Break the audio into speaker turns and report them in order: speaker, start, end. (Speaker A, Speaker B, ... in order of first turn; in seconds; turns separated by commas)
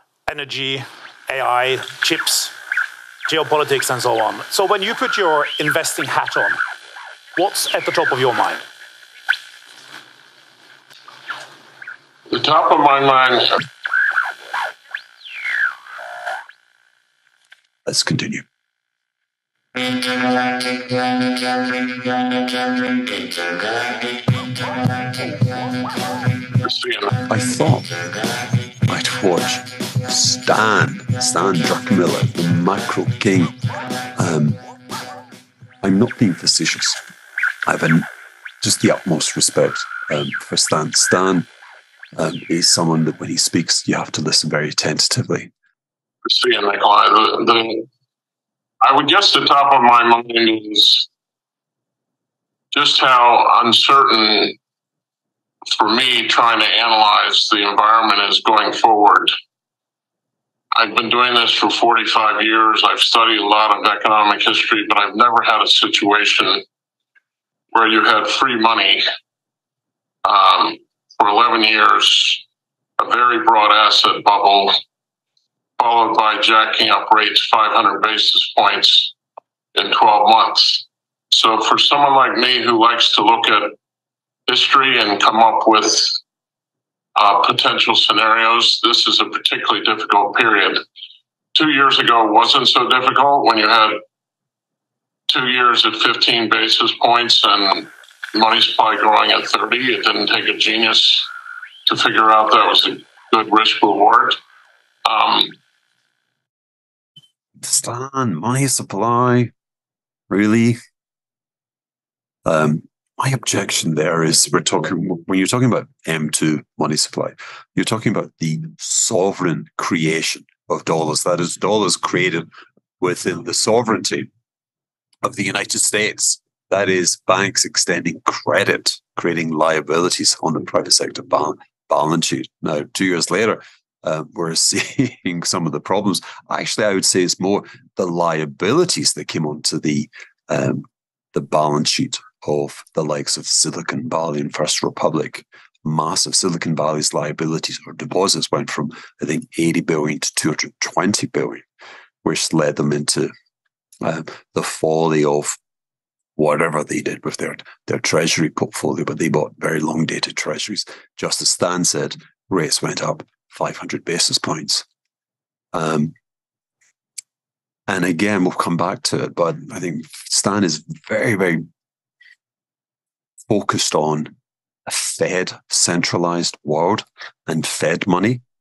Speaker A: 0.2-2.5, Speaker A: 3.2-6.6, Speaker A: 7.3-8.6, Speaker B: 12.3-13.6, Speaker C: 17.9-18.4, Speaker B: 26.6-27.1, Speaker C: 27.3-27.9, Speaker C: 28.9-33.5, Speaker C: 34.2-34.6, Speaker C: 35.8-37.0, Speaker C: 37.6-38.1, Speaker C: 38.6-41.5, Speaker C: 42.1-45.5, Speaker B: 46.2-47.9, Speaker B: 48.8-51.1, Speaker B: 52.7-54.6, Speaker B: 55.6-59.3, Speaker B: 60.7-66.6, Speaker B: 67.7-69.0, Speaker B: 70.2-72.4, Speaker B: 73.0-74.7, Speaker B: 75.8-79.1, Speaker B: 79.7-83.8, Speaker B: 84.5-86.2, Speaker B: 87.2-90.8, Speaker B: 91.5-94.0, Speaker B: 95.3-101.3, Speaker B: 101.8-104.4, Speaker B: 105.0-105.6, Speaker C: 107.6-109.5, Speaker C: 110.3-110.8, Speaker C: 112.4-122.5, Speaker C: 123.0-124.3, Speaker C: 125.2-151.6, Speaker C: 152.2-153.3, Speaker C: 154.0-155.6, Speaker C: 156.3-164.8, Speaker C: 165.7-166.1, Speaker C: 167.9-171.6, Speaker C: 173.5-174.3, Speaker C: 174.9-178.4